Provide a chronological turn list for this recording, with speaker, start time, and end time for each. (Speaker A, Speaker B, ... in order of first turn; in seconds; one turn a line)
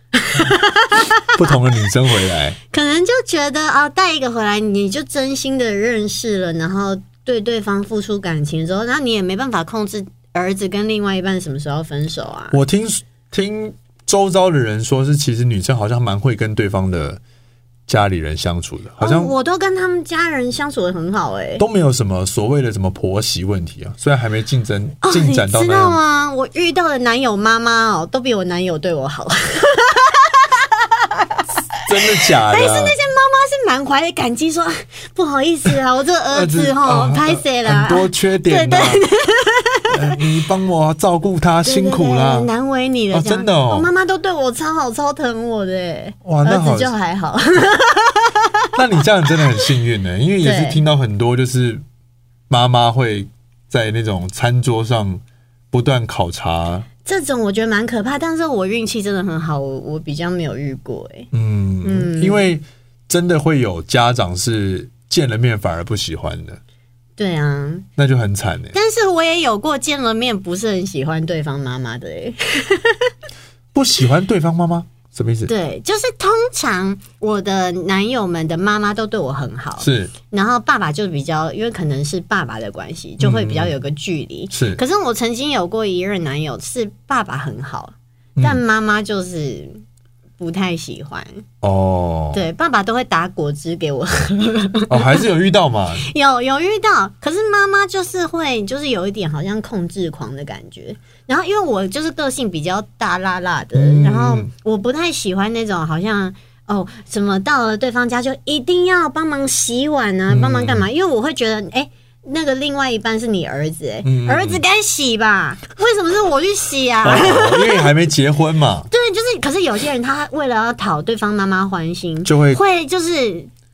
Speaker A: 0.2-1.6
Speaker B: 1.3-2.6
Speaker A: 2.7-12.6
Speaker B: 12.5-17.2
Speaker B: 17.9-19.3
Speaker A: 19.0-21.6
Speaker B: 21.6-26.0
Speaker A: 25.0-31.5
Speaker B: 31.9-33.0
Speaker A: 32.1-40.1
Speaker B: 36.3-39.0
Speaker B: 39.9-42.5
Speaker A: 41.6-48.7
Speaker B: 43.1-43.9
Speaker B: 46.2-46.9
Speaker B: 48.7-51.8
Speaker A: 50.4-50.8
Speaker B: 52.5-56.9
Speaker A: 57.0-61.3
Speaker B: 61.3-66.6
Speaker A: 61.8-62.5
Speaker A: 67.2-67.9
Speaker B: 68.0-68.8
Speaker A: 68.7-73.1
Speaker B: 73.7-75.5
Speaker A: 75.5-89.8
Speaker B: 79.8-80.1
Speaker B: 83.2-83.7
Speaker B: 84.5-84.8
Speaker A: 90.4-91.4
Speaker B: 91.6-92.4
Speaker A: 92.3-95.3
Speaker B: 94.9-96.1
Speaker A: 96.0-117.9
Speaker B: 103.7-104.5
Speaker B: 110.3-110.9
Speaker B: 114.0-114.6
Speaker B: 117.0-118.9
Speaker A: 118.9-123.5
Speaker B: 122.2-122.6